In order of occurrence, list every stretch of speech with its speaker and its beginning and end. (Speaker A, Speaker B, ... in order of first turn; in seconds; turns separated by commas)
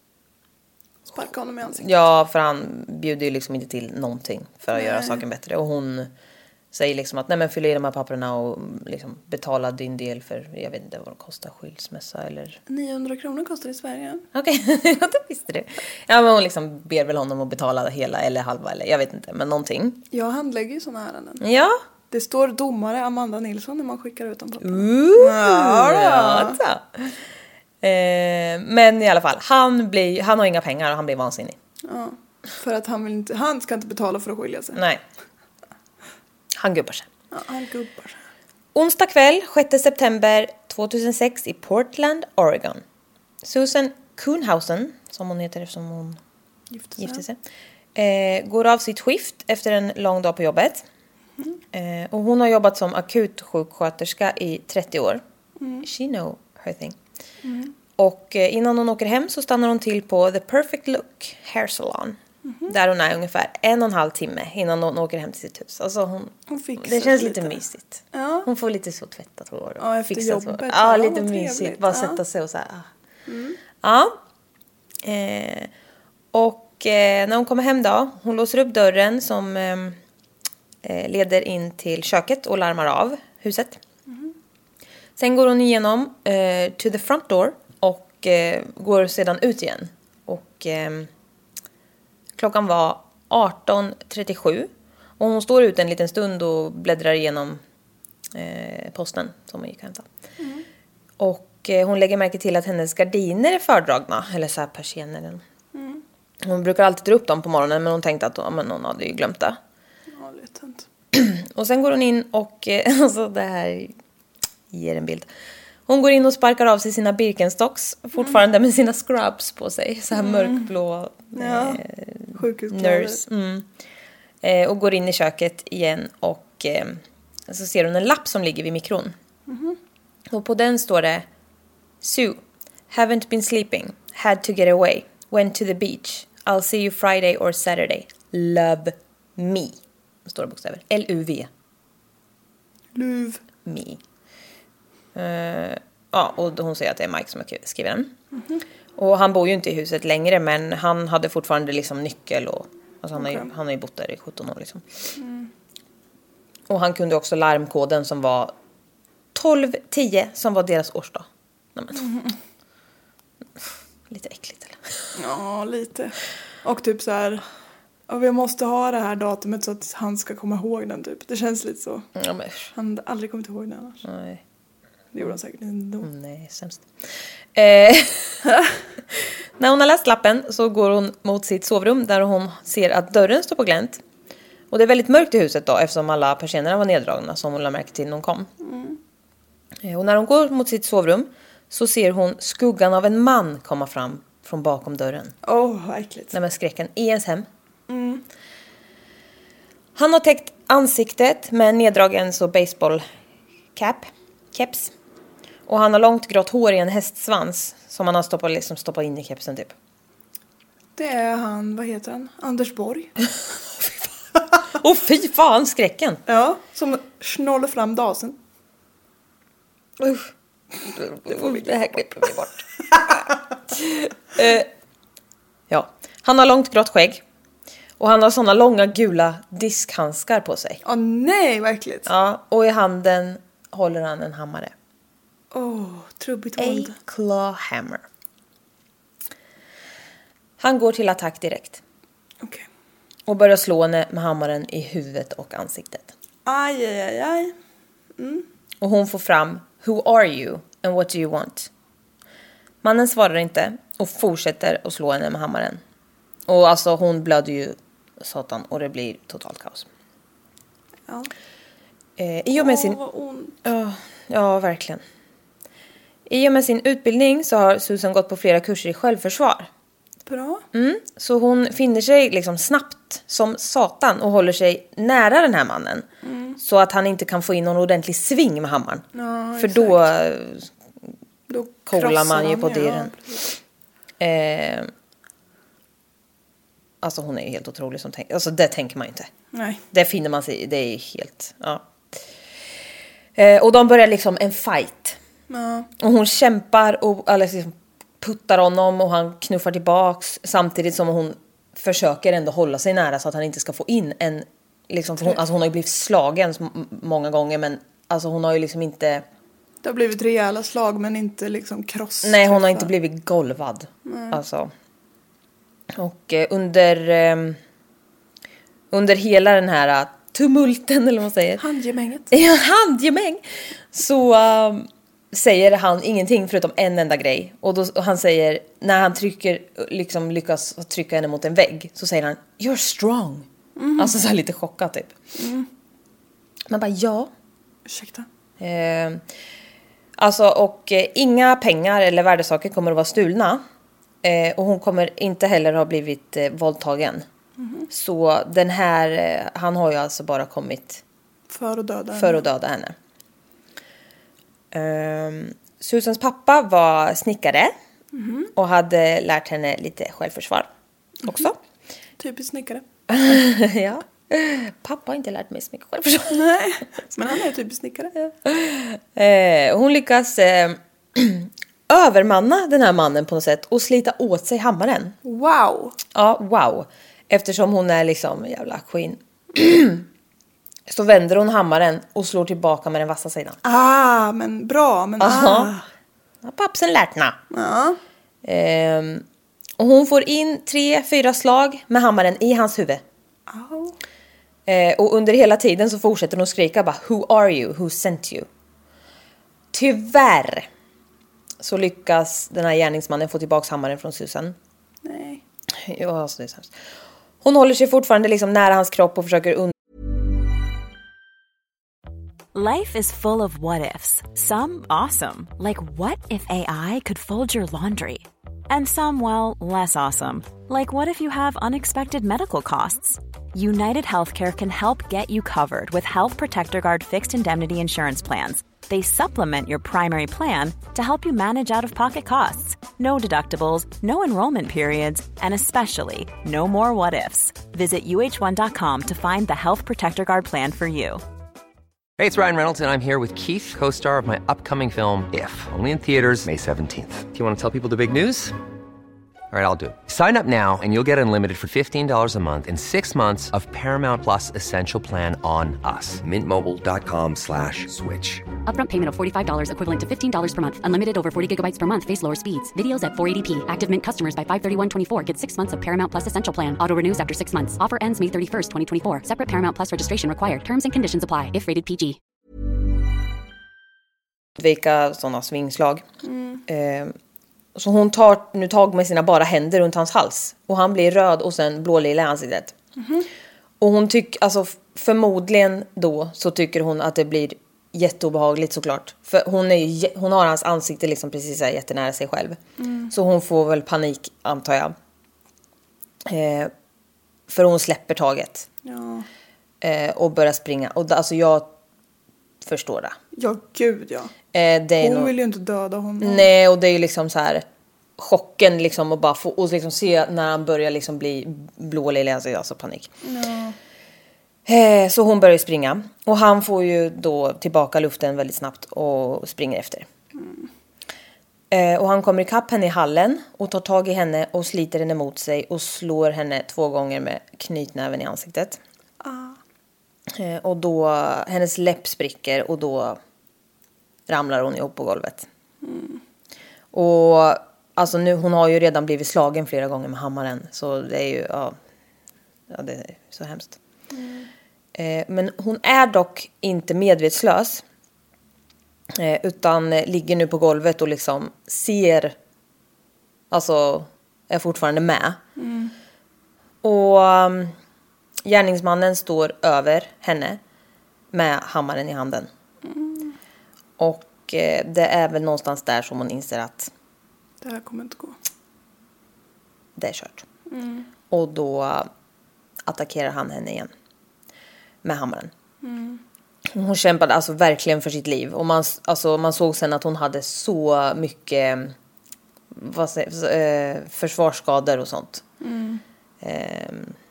Speaker A: 1.1-1.9, Speaker B: 1.8-6.1, Speaker A: 4.7-5.2, Speaker B: 6.7-12.6, Speaker A: 12.7-14.2, Speaker B: 14.3-20.0, Speaker A: 20.1-21.4, Speaker B: 21.4-21.8, Speaker A: 22.1-26.6, Speaker B: 24.6-27.2, Speaker B: 27.8-31.6, Speaker A: 31.9-34.8, Speaker B: 34.8-35.0, Speaker B: 36.6-37.1, Speaker A: 37.3-38.2, Speaker B: 38.8-42.8, Speaker B: 43.4-46.2, Speaker A: 46.7-47.2, Speaker B: 47.0-47.4, Speaker B: 48.0-50.9, Speaker B: 51.7-55.2, Speaker A: 55.6-55.9, Speaker B: 55.8-57.0, Speaker A: 57.4-57.7, Speaker B: 58.0-72.9, Speaker A: 62.5-62.7, Speaker A: 66.5-67.6, Speaker A: 68.1-68.5, Speaker A: 69.8-72.2, Speaker A: 73.3-73.6, Speaker B: 73.8-74.2, Speaker B: 75.0-75.7, Speaker B: 76.3-80.0, Speaker B: 80.8-83.8, Speaker B: 85.2-91.1, Speaker B: 92.4-97.6, Speaker B: 98.3-100.1, Speaker A: 100.4-100.7, Speaker B: 101.2-105.4, Speaker A: 105.7-106.0, Speaker B: 106.4-109.6, Speaker A: 110.1-110.9, Speaker B: 111.1-113.9, Speaker B: 114.7-115.3, Speaker B: 115.9-123.7, Speaker A: 120.2-120.7, Speaker A: 121.3-121.8, Speaker A: 122.3-123.2, Speaker B: 124.4-129.2, Speaker A: 129.5-129.8, Speaker B: 130.3-131.3, Speaker B: 132.0-141.5, Speaker A: 142.9-143.4, Speaker B: 143.7-144.0, Speaker B: 145.2-148.1, Speaker A: 148.3-148.6, Speaker B: 149.0-154.8, Speaker A: 153.2-153.5, Speaker A: 155.2-155.5, Speaker B: 156.7-158.5, Speaker B: 159.3-162.0, Speaker A: 161.9-162.3, Speaker B: 164.1-165.1, Speaker A: 165.2-167.4, Speaker A: 168.1-172.1, Speaker B: 172.2-172.7, Speaker A: 172.7-174.0, Speaker B: 174.0-174.4, Speaker A: 175.1-176.1, Speaker B: 176.0-176.9, Speaker B: 177.5-178.4, Speaker B: 179.2-184.0, Speaker B: 184.7-188.5, Speaker A: 188.6-189.0, Speaker B: 189.8-195.3, Speaker A: 195.4-196.3, Speaker B: 196.3-197.5, Speaker A: 197.9-198.2, Speaker B: 199.9-203.1, Speaker B: 203.8-204.9, Speaker B: 205.7-209.7, Speaker A: 211.0-213.1, Speaker B: 214.7-216.2, Speaker A: 216.3-218.4, Speaker B: 220.0-220.3, Speaker B: 220.8-224.7, Speaker B: 225.7-227.2, Speaker B: 228.0-230.8, Speaker A: 230.8-232.1, Speaker B: 232.1-234.7, Speaker A: 235.5-236.9, Speaker B: 236.6-238.0, Speaker B: 240.6-241.8, Speaker B: 243.3-246.1, Speaker A: 246.5-247.5, Speaker A: 248.2-248.5, Speaker B: 248.8-251.7, Speaker B: 252.8-255.8, Speaker B: 256.5-259.9, Speaker B: 262.2-263.0, Speaker A: 262.6-263.6, Speaker B: 263.6-265.0, Speaker B: 266.3-269.7, Speaker A: 270.3-270.6, Speaker B: 270.7-276.1, Speaker A: 276.2-276.6, Speaker B: 276.6-279.0, Speaker A: 279.1-280.1, Speaker B: 279.6-280.7, Speaker A: 281.5-283.5, Speaker B: 281.9-283.1, Speaker B: 284.2-284.9, Speaker B: 287.0-289.3, Speaker A: 289.5-289.8, Speaker B: 289.9-291.9, Speaker B: 293.4-295.2, Speaker A: 295.5-295.9, Speaker B: 296.0-309.2, Speaker A: 309.8-312.9, Speaker B: 312.2-314.7, Speaker A: 314.1-314.4, Speaker B: 315.9-317.6, Speaker B: 318.9-321.6, Speaker A: 321.6-322.3, Speaker B: 322.3-335.1, Speaker A: 333.8-334.1, Speaker A: 335.4-335.7, Speaker B: 336.7-337.3, Speaker A: 337.9-338.3, Speaker B: 338.6-339.2, Speaker B: 340.2-343.6, Speaker B: 344.2-347.2, Speaker A: 347.6-347.9, Speaker B: 347.9-351.0, Speaker A: 351.5-352.4, Speaker B: 352.1-352.9, Speaker B: 354.7-357.7, Speaker A: 358.1-358.5, Speaker B: 358.6-360.7, Speaker B: 361.2-361.6, Speaker A: 362.2-362.8, Speaker B: 363.1-366.5, Speaker A: 366.3-368.1, Speaker B: 368.2-375.1, Speaker A: 375.2-376.0, Speaker B: 376.1-380.1, Speaker B: 380.9-383.6, Speaker A: 383.6-385.9, Speaker B: 385.2-385.7, Speaker B: 386.4-387.4, Speaker A: 387.5-388.0, Speaker B: 388.4-389.2, Speaker B: 389.8-393.0, Speaker A: 393.5-394.0, Speaker B: 394.7-398.5, Speaker B: 399.7-400.7, Speaker B: 401.6-404.6, Speaker A: 405.1-405.4, Speaker B: 405.7-406.7, Speaker B: 407.4-409.7, Speaker C: 412.5-441.2, Speaker D: 442.2-448.6, Speaker D: 449.5-458.4, Speaker E: 458.7-472.2, Speaker B: 474.6-476.1, Speaker A: 476.2-476.6, Speaker B: 476.7-477.1, Speaker B: 477.8-482.8, Speaker A: 483.0-483.3, Speaker B: 483.8-492.6, Speaker A: 492.8-493.1, Speaker B: 493.1-494.9, Speaker B: 496.2-496.7, Speaker B: 497.5-498.7, Speaker A: 498.8-499.3, Speaker B: 499.8-501.7, Speaker B: 502.6-503.2, Speaker A: 503.3-504.3, Speaker B: 504.5-505.3, Speaker A: 505.0-506.5, Speaker B: 506.2-507.6, Speaker B: 508.2-513.1, Speaker A: 513.2-513.8, Speaker B: 514.7-520.1, Speaker A: 520.4-520.7, Speaker B: 521.7-528.8, Speaker A: 529.2-529.6, Speaker B: 530.3-533.2, Speaker B: 534.3-535.5, Speaker A: 535.8-536.2, Speaker B: 536.9-541.8, Speaker B: 542.7-543.8, Speaker A: 544.1-544.5, Speaker B: 545.0-547.8, Speaker B: 549.1-552.4, Speaker B: 553.5-555.4, Speaker A: 555.6-555.9, Speaker B: 556.8-557.8, Speaker B: 558.5-560.6, Speaker B: 561.3-562.5, Speaker A: 562.8-563.4, Speaker B: 564.0-566.9, Speaker A: 567.6-568.4, Speaker B: 570.0-570.5, Speaker A: 570.7-571.1, Speaker B: 571.3-572.1, Speaker B: 572.9-573.9, Speaker B: 575.0-575.5, Speaker A: 575.8-576.2, Speaker B: 576.7-582.0, Speaker B: 582.7-585.4, Speaker A: 585.6-586.0, Speaker B: 586.4-587.2